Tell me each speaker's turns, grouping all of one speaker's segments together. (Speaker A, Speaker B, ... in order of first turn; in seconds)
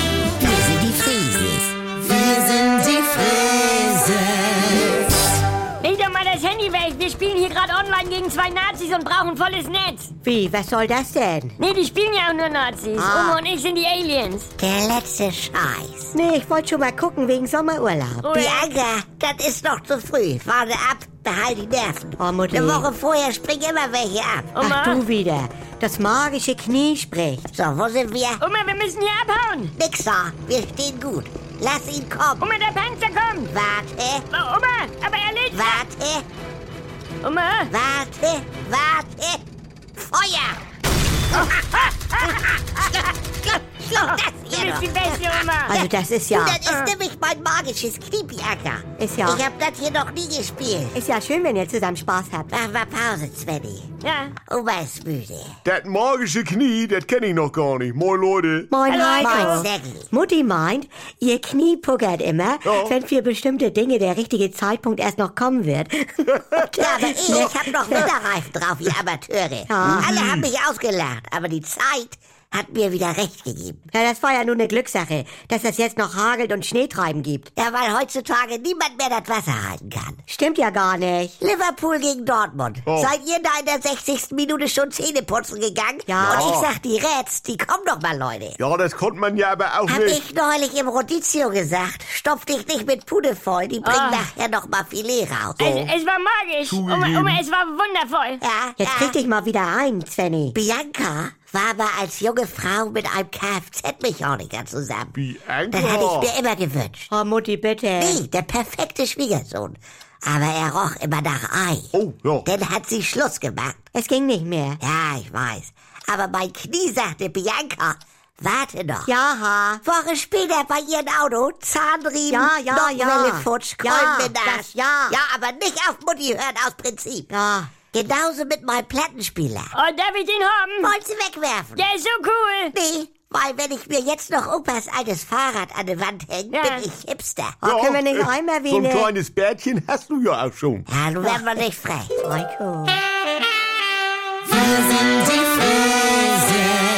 Speaker A: 0.4-4.9, 14.6-16.1, 18.3-24.5, 27.5-28.4, 29.8-32.5, 33.5-34.3, 35.5-36.2, 37.7-39.5, 40.0-40.6, 41.3-51.0, 52.5-53.9, 54.5-55.5, 59.2-60.1, 66.7-73.8, 77.5-80.2, 81.4-88.6, 89.9-95.6, 98.4-99.2, 100.5-105.2, 105.7-107.1, 108.0-111.9, 112.4-113.8, 114.8-119.1, 119.8-127.3, 127.9-129.7, 130.8-131.8, 132.7-137.6, 140.9-142.2, 144.9-146.3
Speaker B: 5.8-10.1, 11.6-14.5, 18.2-18.7, 24.5-25.0, 28.4-29.7, 32.4-33.5, 34.3-35.8, 37.2-37.7, 41.8-42.3, 44.5-45.8, 46.6-46.9, 54.0-54.4, 58.9-59.6, 93.8-94.3, 95.6-98.4, 129.7-130.9, 131.8-132.8, 136.5-136.9
Speaker C: 10.2-11.6, 13.0-13.4, 16.1-18.3, 22.2-22.9, 24.6-27.5, 45.7-46.6, 49.0-49.4, 50.9-52.5, 58.7-68.1, 69.7-70.1, 73.9-77.5, 80.3-81.3, 98.8-100.5, 107.1-108.2, 114.0-114.8, 119.1-119.8, 122.3-125.2, 127.3-127.7, 137.6-139.1, 142.2-143.0
Speaker D: 55.6-58.7, 62.6-63.0, 69.8-70.5, 82.9-83.1, 86.2-86.7, 88.6-90.2, 95.6-95.9, 96.7-97.4, 105.1-106.3, 111.9-112.5, 137.6-140.9